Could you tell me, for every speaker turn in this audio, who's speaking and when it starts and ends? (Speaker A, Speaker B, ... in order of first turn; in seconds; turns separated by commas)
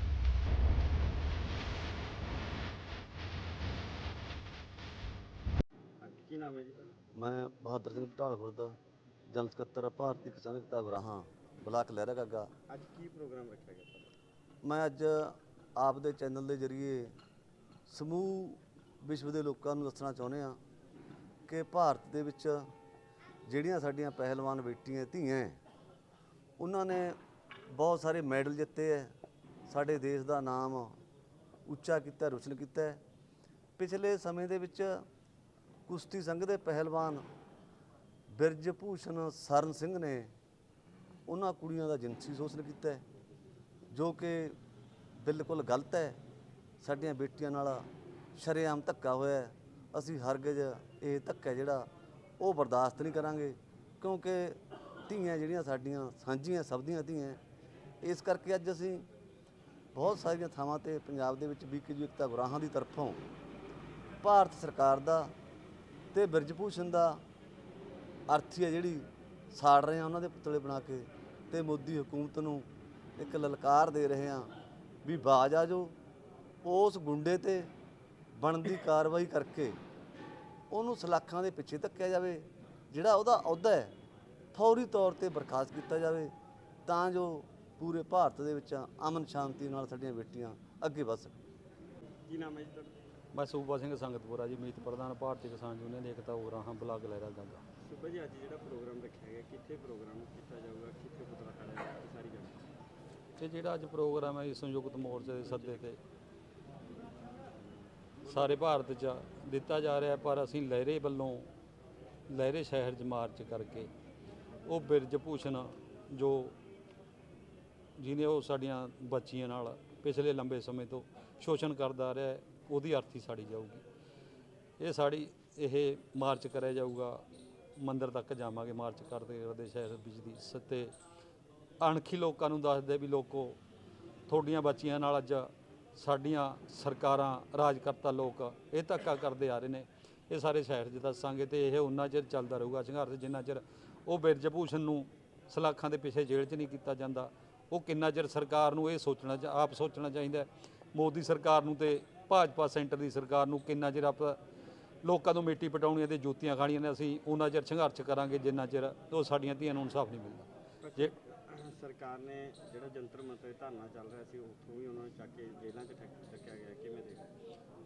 Speaker A: 6.0-6.8, Speaker B: 7.1-8.8, Speaker B: 9.3-12.5, Speaker A: 12.7-14.1, Speaker B: 14.6-17.1, Speaker B: 17.9-20.6, Speaker B: 21.5-22.7, Speaker B: 23.4-25.6, Speaker B: 26.6-27.2, Speaker B: 27.7-29.1, Speaker B: 29.7-31.0, Speaker B: 31.6-33.0, Speaker B: 33.8-35.0, Speaker B: 35.9-37.2, Speaker B: 38.3-40.3, Speaker B: 41.3-43.0, Speaker B: 43.9-44.6, Speaker B: 45.1-46.2, Speaker B: 46.8-51.9, Speaker B: 52.4-57.4, Speaker B: 58.0-59.0, Speaker B: 59.9-63.2, Speaker B: 64.2-65.3, Speaker B: 66.1-67.2, Speaker B: 68.3-74.5, Speaker B: 75.0-75.9, Speaker B: 76.6-77.7, Speaker B: 78.3-79.8, Speaker B: 80.7-83.9, Speaker B: 84.5-86.3, Speaker B: 86.8-91.3, Speaker A: 92.3-92.9, Speaker C: 93.3-97.6, Speaker A: 97.8-102.6, Speaker C: 103.4-106.0, Speaker A: 105.5-105.8, Speaker A: 108.2-108.7, Speaker C: 108.2-111.5, Speaker C: 112.3-113.9, Speaker C: 114.7-116.5, Speaker C: 118.0-123.8, Speaker C: 124.8-127.2, Speaker C: 127.8-130.9, Speaker C: 131.8-133.6, Speaker C: 134.3-154.4, Speaker C: 155.0-161.1, Speaker A: 160.8-167.3